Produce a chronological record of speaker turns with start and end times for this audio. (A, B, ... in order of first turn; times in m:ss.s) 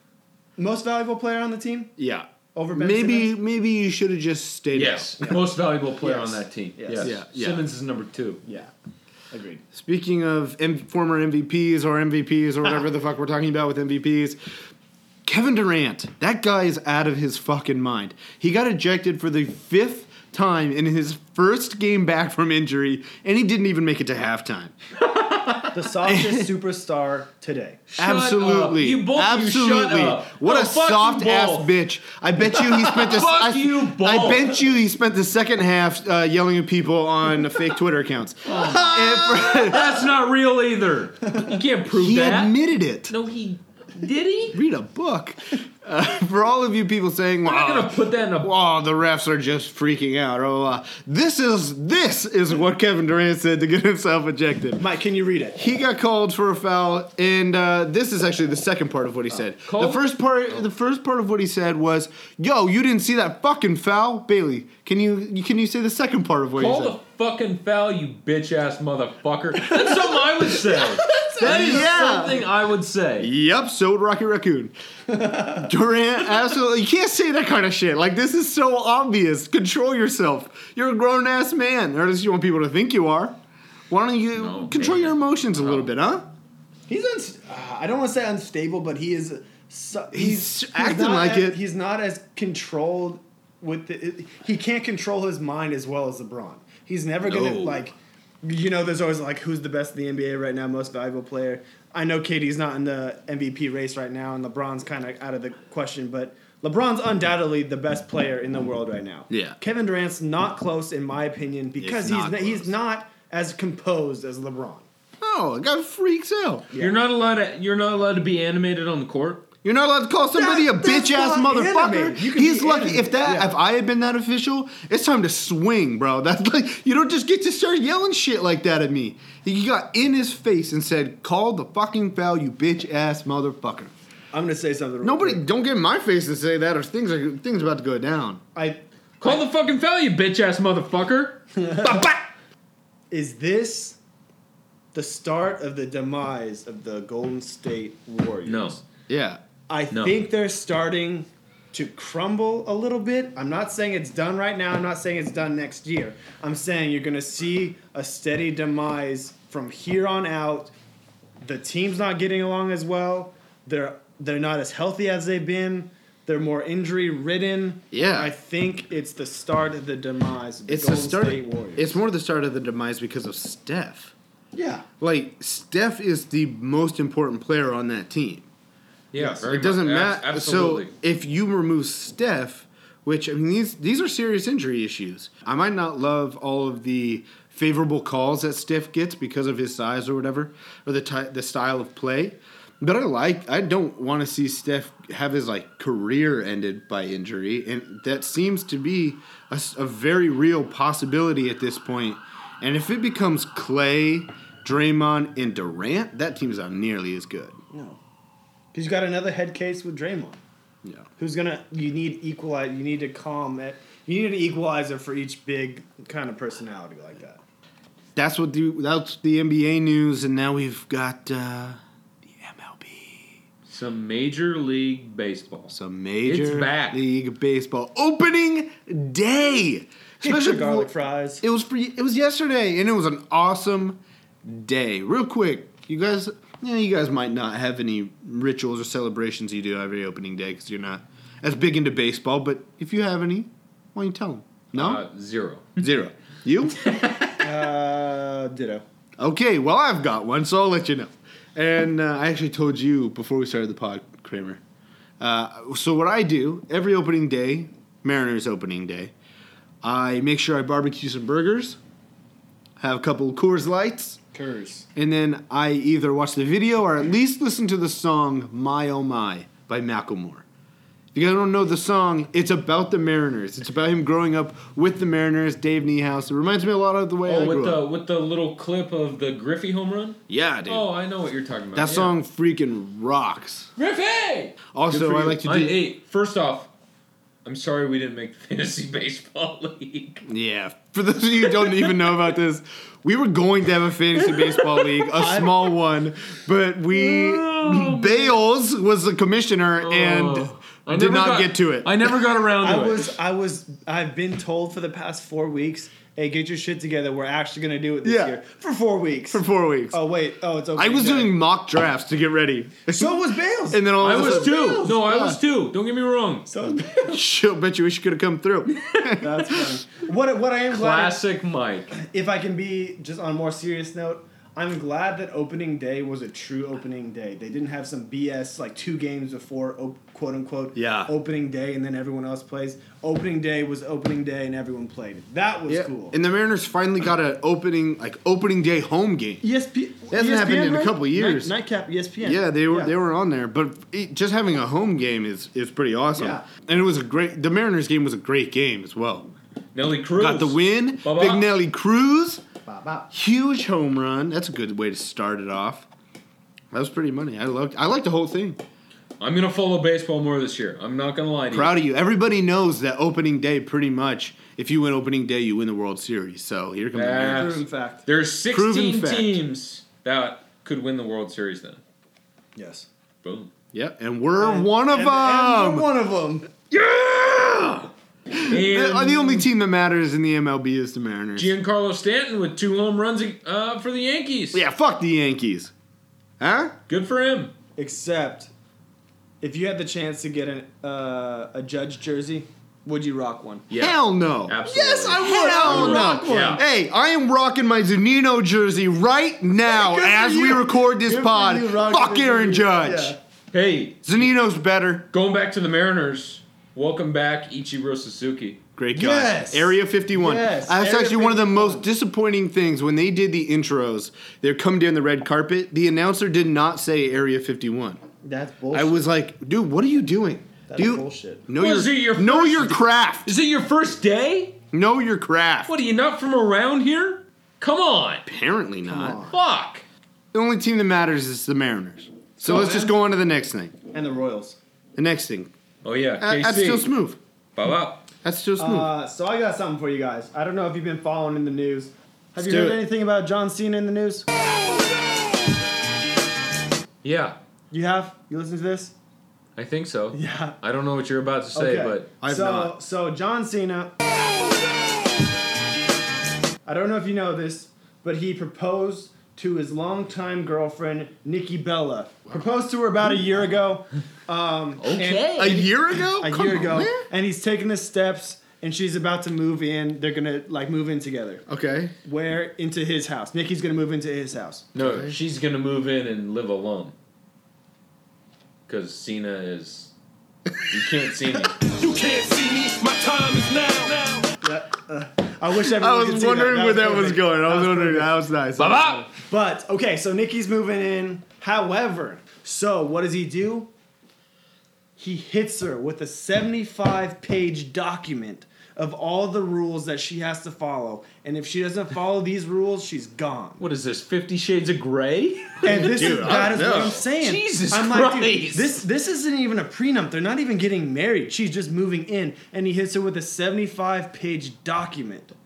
0:00.6-0:01.9 A
0:02.0-0:05.2 B
0:02.6-0:03.3 A
0:04.7-0:08.4 C
0:06.0-0:07.2 A
0:07.0-0:07.7 B
0:08.5-0:08.7 A
0:09.3-0:09.6 A
0:09.7-0:14.4 B
0:15.2-0:24.7 B
0:25.0-0:25.7 C
0:25.7-0:27.8 A
0:26.0-0:26.5 B
0:27.9-0:40.0 B
0:28.0-0:31.7 C
0:32.6-0:34.6 C
0:38.5-0:42.6 C
0:41.9-0:43.1 B
0:43.1-0:44.6 C
0:44.5-0:54.8 B
0:47.4-0:48.5 C
0:54.8-0:55.6 A
0:55.6-1:07.0 B
0:59.7-1:00.0 C
1:06.6-1:13.3 C
1:10.8-1:11.9 A
1:11.4-1:12.5 B
1:13.2-1:14.7 B
1:15.1-1:15.7 A
1:15.5-1:23.4 B
1:23.9-1:26.3 B
1:24.4-1:25.9 C
1:26.9-1:54.9 A
1:30.1-1:31.6 B
1:37.3-1:37.8 C
1:49.3-1:49.6 B
1:51.8-1:52.7 B
1:55.2-1:56.7 B
1:56.7-1:57.0 A
1:56.8-1:59.4 C
1:59.6-2:13.9 B
2:00.4-2:03.6 A
2:14.3-2:15.4 A
2:15.0-2:18.4 B
2:18.6-2:19.4 A
2:19.2-2:21.4 C
2:21.6-2:22.0 A
2:21.8-2:22.1 B
2:23.1-2:24.0 A
2:24.9-2:28.8 A
2:28.5-2:28.8 C
2:29.1-2:29.4 B
2:29.7-2:40.7 A
2:29.9-2:30.2 C
2:41.4-2:52.0 A
2:47.9-2:48.3 B
2:50.7-2:54.1 B
2:54.5-2:54.8 A
2:55.0-2:58.5 B
2:59.1-3:00.9 C
2:59.2-2:59.4 A
2:59.4-3:27.6 B
3:27.7-3:28.0 A
3:28.7-3:30.4 A
3:31.2-3:37.4 A
3:38.2-3:43.4 B
3:43.7-3:45.7 C
3:45.7-4:05.0 B
3:46.2-3:47.0 C
3:50.2-3:51.4 A
4:04.7-4:05.8 C
4:05.8-4:06.9 B
4:06.9-4:07.2 C
4:07.4-4:08.8 A
4:09.2-4:14.6 B
4:15.2-4:19.1 B
4:19.8-4:21.8 B
4:22.8-4:24.2 B
4:24.3-4:24.9 A
4:25.0-4:30.4 B
4:31.1-4:37.8 B
4:37.2-4:42.1 C
4:40.3-4:40.9 B
4:41.8-4:43.7 B
4:43.8-4:46.7 C
4:44.7-4:45.9 B
4:47.4-4:50.2 C
4:50.3-5:02.1 B
4:51.6-4:52.1 C
4:54.3-4:54.8 C
4:55.2-4:55.5 A
4:56.9-4:58.4 C
4:59.8-5:03.2 C
5:02.6-5:11.4 A
5:08.0-5:08.4 B
5:09.3-5:10.0 B
5:10.8-5:13.2 B
5:12.9-5:15.0 A
5:13.7-5:15.4 B
5:14.0-5:16.5 C
5:16.5-5:17.2 A
5:16.8-5:19.6 B
5:19.2-5:21.2 A
5:20.7-5:22.0 C
5:22.0-5:36.2 A
5:30.8-5:31.1 B
5:35.7-5:39.4 B
5:39.4-5:42.9 A
5:40.1-5:41.5 B
5:42.2-5:49.3 B
5:46.2-5:46.5 A
5:49.7-5:51.5 C
5:50.2-5:52.4 B
5:52.7-5:53.1 A
5:53.1-5:55.9 B
5:56.7-5:58.6 B
5:59.2-6:01.8 C
6:01.5-6:07.6 B
6:06.9-6:11.8 C
6:07.3-6:08.0 A
6:08.5-6:09.4 B
6:12.6-6:12.9 A
6:13.2-6:13.5 C
6:13.7-6:15.9 B
6:14.4-6:16.5 A
6:16.7-6:21.5 B
6:18.5-6:19.5 C
6:21.4-6:24.6 C
6:24.5-6:25.7 B
6:26.4-6:26.8 B
6:26.9-6:27.5 C
6:27.8-6:28.5 A
6:29.4-6:33.6 A
6:33.7-6:36.6 C
6:33.8-6:43.2 B
6:34.7-6:36.6 A
6:39.7-6:43.2 A
6:43.5-6:44.2 C
6:44.0-6:45.1 B
6:45.1-6:48.6 C
6:48.8-6:58.0 B
6:48.9-6:51.9 A
6:58.2-6:59.1 A
6:58.7-7:03.3 B
7:00.7-7:01.4 A
7:01.6-7:04.6 C
7:04.7-7:05.7 B
7:05.7-7:08.2 C
7:08.3-7:09.2 B
7:08.8-7:09.4 A
7:09.3-7:09.8 C
7:10.3-7:13.8 B
7:12.4-7:12.9 A
7:13.9-7:14.6 A
7:15.0-7:15.5 B
7:15.8-7:16.9 C
7:16.2-7:17.2 B
7:17.6-7:18.0 C
7:18.2-7:18.9 B
7:18.6-7:24.3 A
7:22.4-7:22.8 B
7:27.0-7:27.4 C
7:27.7-7:28.9 A
7:29.6-7:32.1 C
7:30.1-7:30.6 A
7:31.6-7:33.9 A
7:32.2-7:32.7 B
7:36.7-7:51.4 A
7:44.8-7:45.6 C
7:45.4-7:47.1 B
7:51.5-7:52.0 B
7:52.0-7:54.7 A
7:54.7-7:56.9 C
7:54.8-7:55.2 B
7:58.7-7:59.9 C
8:00.7-8:01.6 C
8:01.8-8:04.2 D
8:04.4-8:08.2 A
8:05.7-8:09.0 B
8:08.6-8:09.1 C
8:09.1-8:13.7 A
8:15.0-8:23.6 A
8:23.6-8:28.8 C
8:25.6-8:35.3 A
8:25.6-8:27.0 B